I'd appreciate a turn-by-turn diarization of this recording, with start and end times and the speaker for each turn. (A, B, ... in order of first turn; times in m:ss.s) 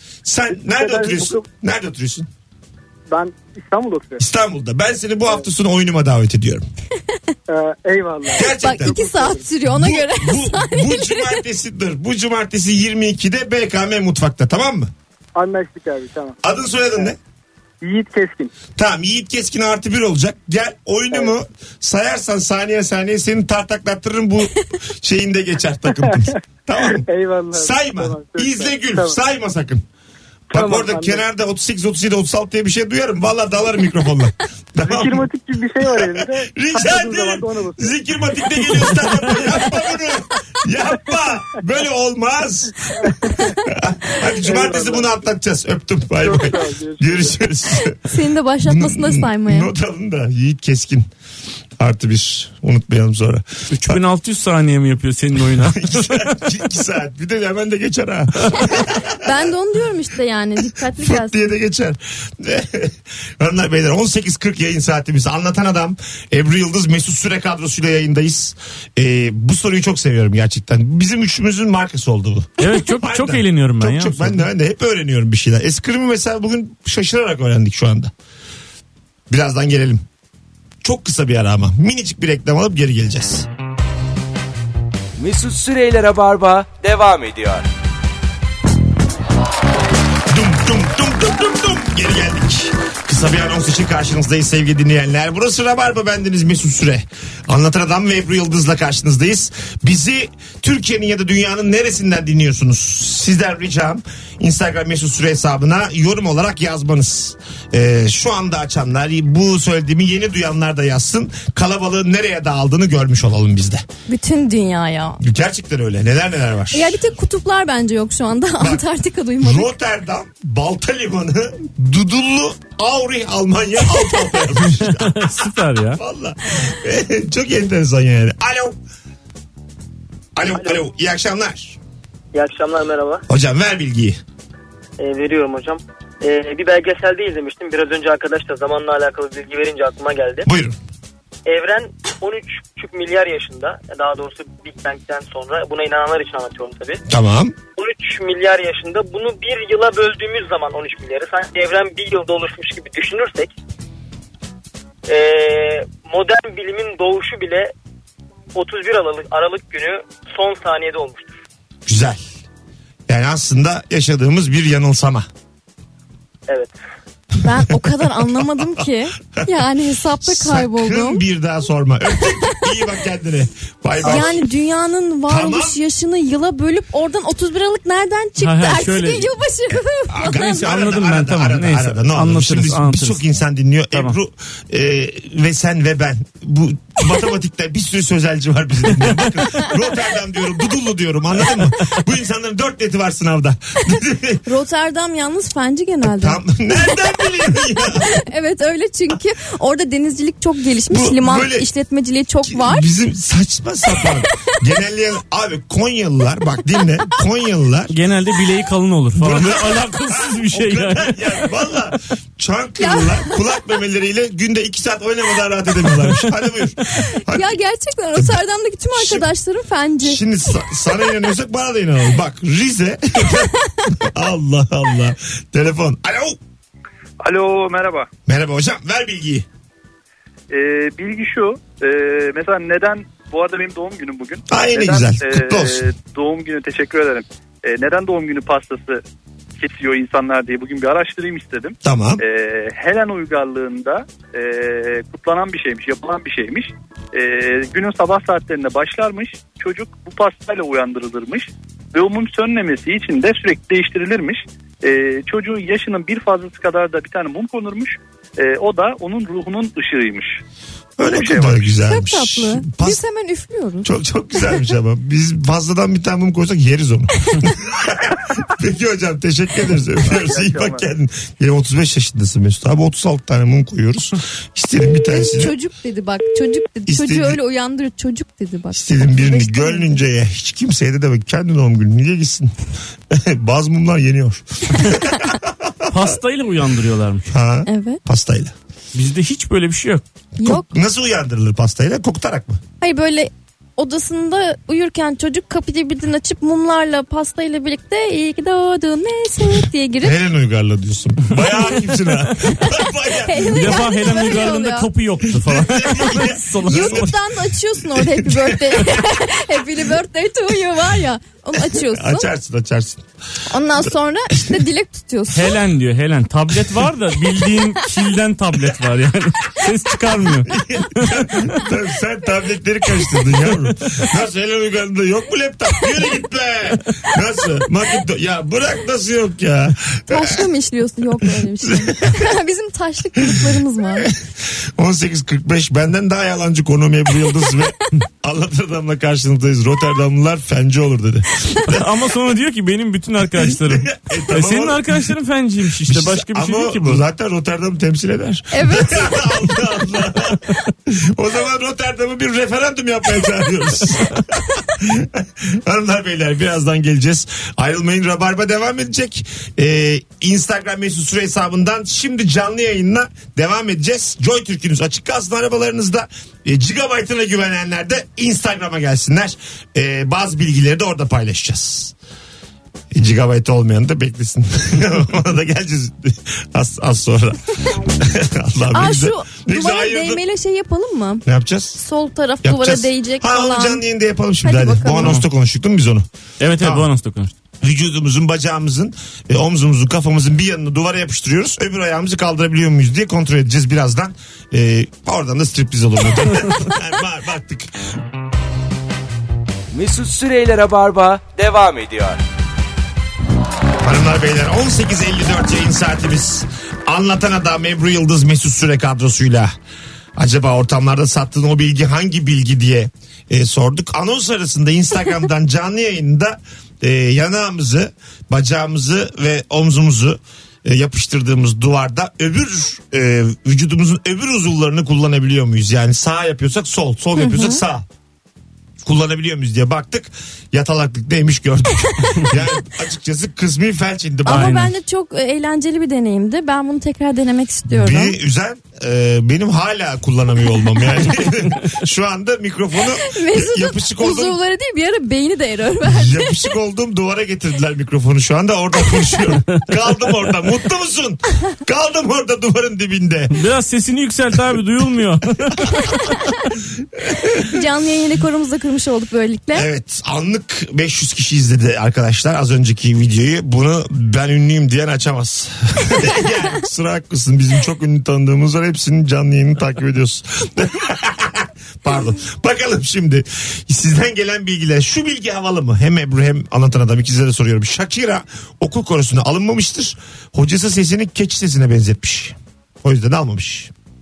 0:00.2-0:02.3 A
0:00.6-0:01.4 B
0:03.1-0:04.2 B
0:04.2-0:06.6 A
0:07.5-0:09.5 B
0:08.3-0:08.9 A
0:08.5-0:11.4 C
0:09.6-0:14.9 A
0:15.4-0:16.4 B
0:16.4-0:17.2 A
0:17.8-0:18.5 B
0:18.8-0:29.8 A
0:26.8-0:29.2 B
0:30.5-0:31.2 B
0:30.5-0:35.3 A
0:34.8-0:38.0 B
0:35.8-0:43.1 A
0:38.6-0:39.0 B
0:43.6-0:48.0 A
0:44.4-0:45.1 B
0:46.2-0:47.4 B
0:48.0-0:49.7 C
0:48.6-0:51.1 A
0:51.8-0:54.0 A
0:53.7-0:56.4 D
0:55.6-0:59.4 A
0:59.2-1:01.5 C
1:01.0-1:18.1 A
1:12.6-1:14.4 D
1:19.3-1:20.0 A
1:20.8-1:23.5 A
1:25.2-1:27.7 E
1:30.3-1:53.8 A
1:54.1-1:55.2 C
1:55.2-1:57.0 A
1:56.7-1:59.7 C
1:58.6-1:58.8 A
1:59.4-2:08.8 A
2:04.7-2:06.0 D
2:10.4-2:11.8 A
2:12.3-2:13.2 F
2:13.3-2:14.2 A
2:15.0-2:20.5 F
2:20.4-2:20.8 A
2:21.4-2:27.0 F
2:27.1-2:27.6 A
2:27.8-2:33.5 F
2:35.1-2:37.7 F
2:38.5-2:41.4 F
2:41.8-2:42.2 A
2:43.1-2:45.3 A
2:46.5-2:46.7 F
2:47.4-2:51.2 C
2:47.7-2:48.6 A
2:50.2-2:54.4 A
2:54.0-3:00.6 C
2:55.3-2:55.8 A
2:58.4-2:59.3 D
3:00.1-3:14.4 A
3:00.6-3:03.2 D
3:14.4-3:16.4 C
3:16.0-3:18.1 A
3:18.0-3:22.8 C
3:20.9-3:21.7 A
3:22.4-3:27.9 A
3:27.9-3:31.4 D
3:29.2-3:37.6 A
3:32.8-3:33.3 C
3:37.1-3:40.2 C
3:38.9-3:39.3 A
3:40.0-3:46.4 A
3:47.2-3:48.1 G
3:48.2-3:49.4 A
3:50.5-3:59.0 G
3:54.5-3:55.9 A
3:59.6-4:20.4 G
4:01.8-4:02.2 A
4:21.0-4:23.0 A
4:21.1-4:21.7 G
4:21.8-4:23.9 C
4:23.8-4:35.5 A
4:30.2-4:30.7 G
4:35.1-4:40.0 C
4:36.9-4:37.4 A
4:38.7-4:42.5 A
4:43.1-4:46.1 A
4:45.9-4:47.2 D
4:47.3-4:48.5 A
4:47.6-4:48.0 C
4:48.9-4:50.0 D
4:50.4-4:50.7 C
4:50.4-4:52.6 A
4:52.8-5:00.1 C
5:00.0-5:04.4 A
5:03.2-5:04.9 C
5:03.5-5:07.1 D
5:05.3-5:07.2 A
5:06.6-5:12.3 C
5:07.8-5:09.0 A
5:11.6-5:13.0 A
5:13.5-5:15.5 C
5:15.3-5:21.3 D
5:20.5-5:30.4 A
5:30.1-5:34.1 C
5:31.6-5:32.2 A
5:34.0-5:41.9 A
5:41.7-5:47.0 D
5:43.4-5:45.1 A
5:45.9-6:11.9 A
5:48.5-5:49.5 C
6:12.9-6:20.2 A
6:18.7-6:21.2 C
6:21.2-6:21.8 A
6:21.8-6:23.8 C
6:22.4-6:26.0 A
6:24.4-6:25.2 C
6:26.4-6:27.3 D
6:26.6-6:26.9 A
6:27.6-6:37.7 A
6:39.7-6:42.2 E
6:43.8-6:49.5 A
6:50.2-7:07.8 A
7:07.2-7:07.6 C
7:08.8-7:14.6 A
7:14.2-7:18.2 C
7:14.3-7:14.7 D
7:17.7-7:24.4 A
7:23.0-7:26.4 C
7:25.8-7:33.3 A
7:33.3-7:36.0 D
7:37.2-7:37.4 A
7:37.4-7:39.7 C
7:39.5-8:03.7 A